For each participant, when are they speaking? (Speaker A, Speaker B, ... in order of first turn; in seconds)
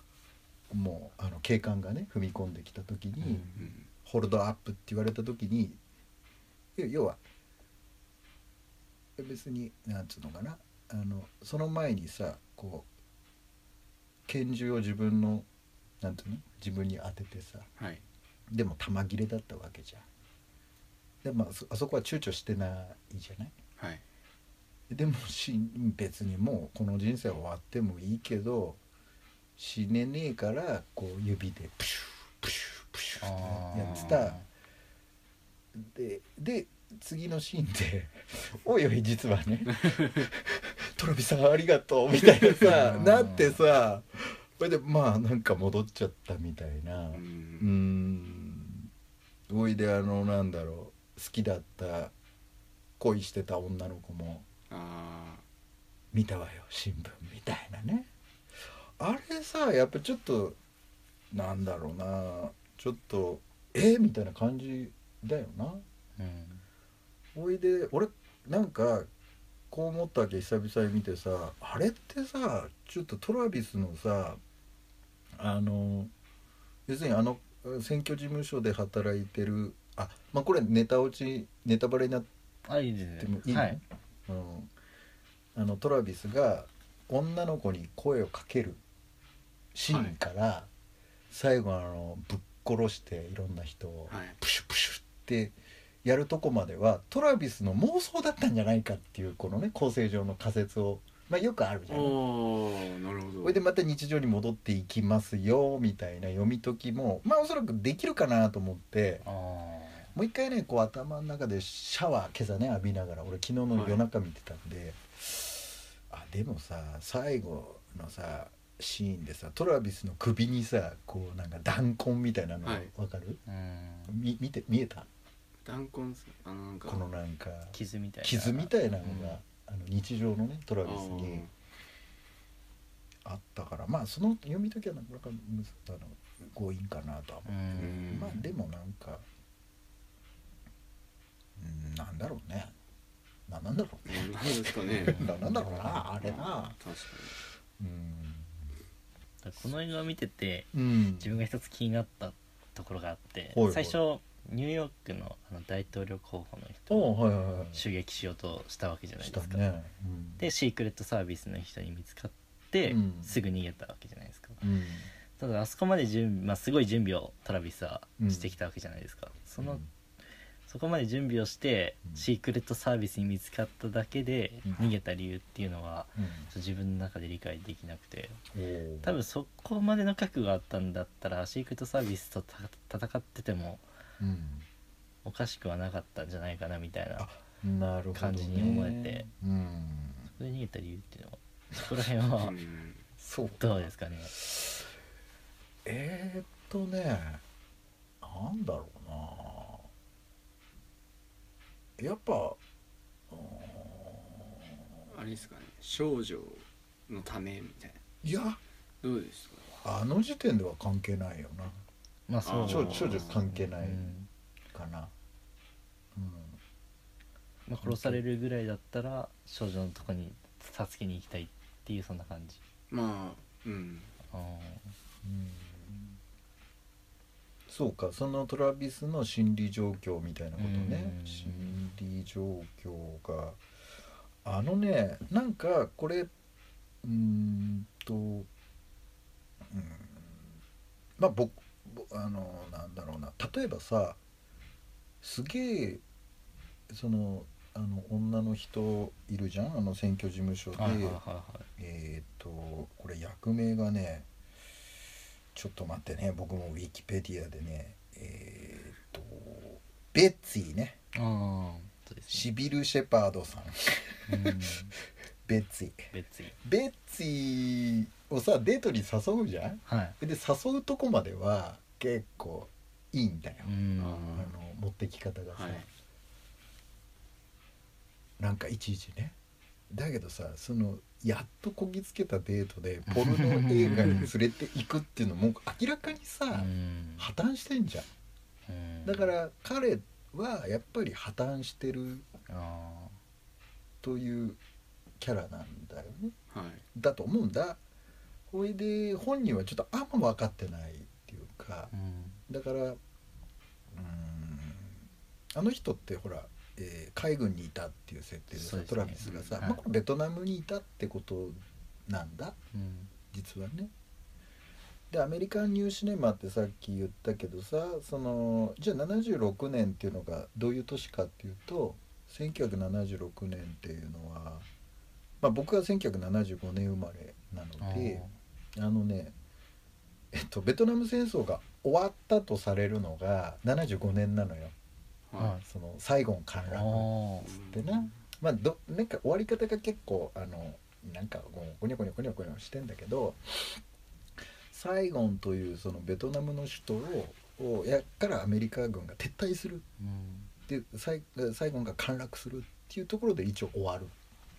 Speaker A: 0.7-5.8, 6.8-7.2, 9.2-12.9, 14.3-15.5, 16.0-17.7, 18.5-20.1, 21.2-23.6, 24.9-28.8, 29.6-34.4, 35.7-48.9, 49.5-52.1, 53.0-54.5, 56.1-58.1, 59.0-60.6, 61.3-65.8, 67.3-69.1, 69.7-74.4, 75.4-76.1, 76.9-82.3, 83.2-84.7, 85.5-88.8, 89.7-90.7, 91.3-102.2, 103.4-109.2, 110.1-123.4, 124.1-125.1, 126.9-131.5, 133.2-139.3, 141.6-142.7, 143.5-146.8, 147.8-148.7, 150.7-151.4, 153.5-154.0, 156.9-157.8, 159.2-160.4, 162.8-163.4, 164.6-165.1, 168.2-168.6, 169.6-169.9, 174.7-174.9, 176.2-176.5, 178.5-179.2, 184.2-184.7, 187.2-190.3, 193.2-194.9, 195.8-197.4, 198.2-199.9, 202.0-202.6, 203.3-204.9, 208.2-208.6, 209.8-211.8, 212.7-214.2, 214.7-215.1, 216.2-216.6, 217.8-218.2, 225.2-226.2, 227.7-233.6, 234.4-236.3, 237.0-238.5, 239.6-240.6, 241.2-244.2, 245.2-246.0, 246.9-251.2, 251.8-254.3, 255.5-261.0, 262.3-264.8, 265.5-266.1, 266.6-273.7, 274.4-275.9, 278.4-279.4, 279.9-288.1, 289.1-292.3, 294.0-294.6, 295.2-296.3, 296.9-297.8, 298.5-301.9, 302.5-303.0, 303.9-305.0, 305.5-312.6, 313.3-313.9, 315.1-324.7, 325.4-329.4, 330.3-334.8, 335.6-343.8, 344.7-349.9, 350.7-354.1
Speaker B: 3.2-3.6, 33.2-34.5, 42.6-43.6, 66.2-66.6, 82.7-83.8, 109.2-110.1, 123.5-124.2, 127.7-129.4, 137.5-138.5, 149.4-157.2, 157.7-159.6, 160.4-164.6, 165.4-169.8, 170.7-178.4, 179.0-183.8, 185.2-187.3, 188.1-189.3, 190.3-192.6, 193.6-194.3, 212.3-214.3, 217.7-222.6, 224.3-224.9, 230.6-231.8, 250.8-251.7, 261.1-262.5, 264.3-264.9, 266.1-266.6, 269.9-270.2, 273.6-274.5, 283.1-284.3, 286.5-287.3, 288.7-289.3, 292.5-293.2, 301.9-302.4, 308.5-309.8, 312.7-313.1, 327.8-328.3, 335.4-335.6, 336.7-337.5, 350.0-350.5
Speaker C: 3.6-3.9, 17.8-18.0, 23.8-24.0, 47.1-47.8, 54.7-55.5, 89.9-90.2, 94.1-94.4, 101.9-103.6, 113.7-114.0, 122.6-122.9, 125.6-127.0, 130.8-131.5, 137.8-138.4, 144.1-145.3, 146.0-147.4, 192.4-193.1, 205.1-208.0, 209.0-209.8, 212.4-213.4, 222.9-224.1, 274.0-274.5, 275.5-275.9, 296.5-296.8, 309.2-309.6, 337.4-338.2